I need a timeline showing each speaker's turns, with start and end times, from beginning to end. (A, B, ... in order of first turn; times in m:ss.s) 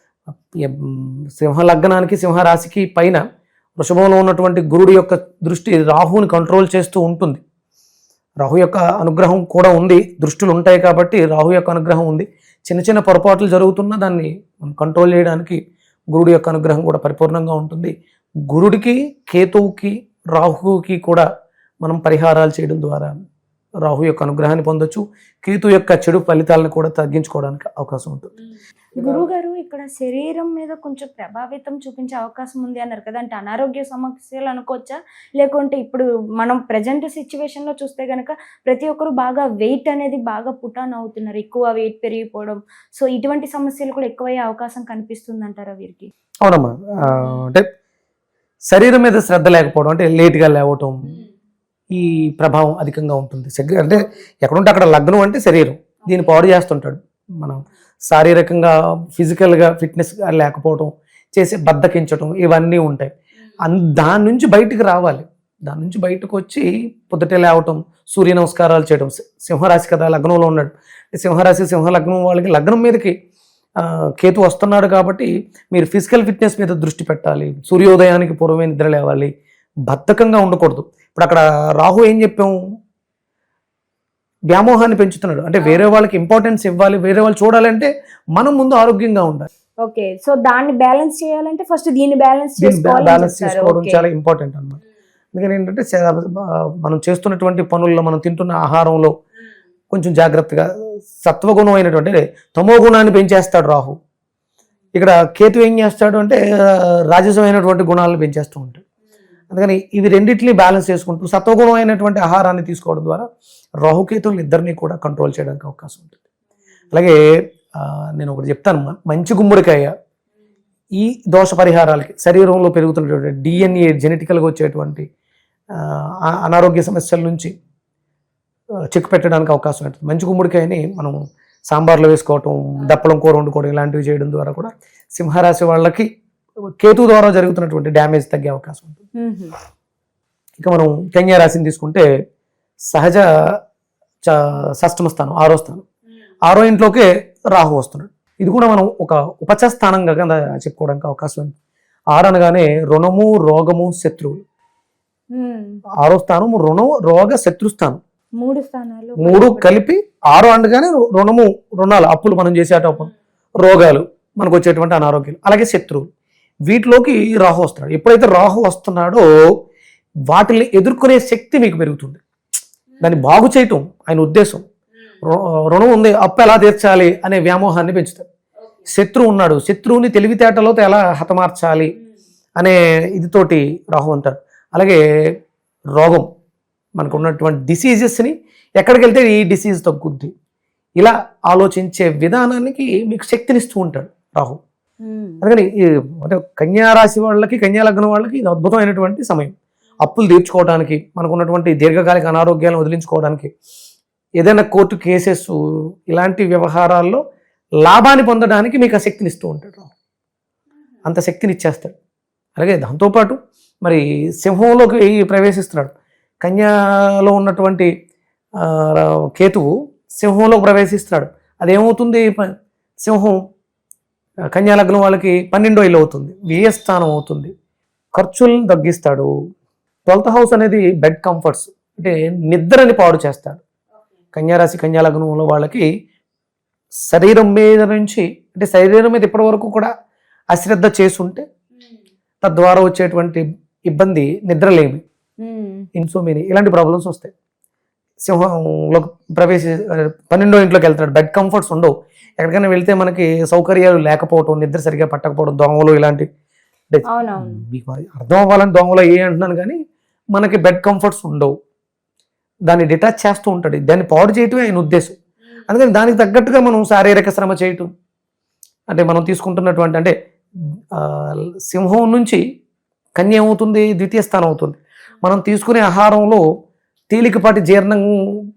0:00.6-0:03.2 A
0:03.8-0:07.4 A
0:08.4-0:15.6 A
0:16.1-0:17.9 A
0:18.5-0:21.3 A
0:21.8-0:23.1 A
0:23.8-0:28.3 A
0:29.0-0:29.2 A
0:29.0-0:46.1 B
0:46.4-0:47.6 A
0:47.0-0:47.4 B
0:48.7-0:51.0 A
0:51.9-1:03.1 A
0:56.1-0:56.4 B
1:03.6-1:13.1 A
1:13.8-1:19.3 A
1:19.9-1:22.6 A
1:24.5-1:29.5 A
1:29.8-1:34.0 B
1:32.6-1:34.8 A
1:35.3-1:39.1 A
1:39.9-1:40.7 A
1:41.2-1:44.0 A
1:44.9-1:48.8 A
1:49.5-1:53.3 A
1:53.8-1:56.2 A
1:56.9-1:57.2 A
1:57.8-1:59.9 A
2:01.0-2:05.0 A
2:05.8-2:07.5 A
2:08.9-2:11.1 A
2:11.7-2:16.1 A
2:16.8-2:19.0 A
2:19.1-2:19.6 B
2:20.6-2:22.0 A
2:22.9-2:23.2 A
2:24.2-2:25.8 A
2:26.5-2:31.5 A
2:32.1-2:34.4 A
2:35.3-2:35.8 B
2:36.0-2:38.0 A
2:38.4-2:39.7 B
2:39.2-2:46.0 A
2:46.7-2:49.2 A
2:50.3-2:52.2 A
2:53.0-2:54.6 A
2:55.2-2:58.2 A
2:58.9-3:01.9 A
3:02.6-3:05.0 A
3:06.0-3:06.2 A
3:07.0-3:10.3 A
3:11.0-3:14.6 A
3:15.0-3:15.4 B
3:15.4-3:15.7 A
3:16.2-3:23.5 A
3:24.4-3:25.6 A
3:26.1-3:27.2 A
3:27.8-3:29.9 A
3:31.0-3:31.9 A
3:32.6-3:37.9 A
3:38.6-3:42.4 A
3:43.0-3:43.4 A
3:44.5-3:47.5 A
3:48.1-3:49.3 A
3:50.1-3:53.6 A
3:54.3-3:55.9 A
3:57.1-3:59.9 A
4:00.5-4:01.4 A
4:02.4-4:05.0 A
4:05.4-4:05.9 B
4:06.0-4:07.3 A
4:08.2-4:16.2 A
4:16.9-4:19.8 A
4:17.1-4:17.6 B
4:20.3-4:21.5 A
4:22.7-4:25.2 A
4:25.7-4:27.9 A
4:28.9-4:30.1 A
4:30.9-4:32.4 A
4:33.2-4:36.4 A
4:37.1-4:38.1 A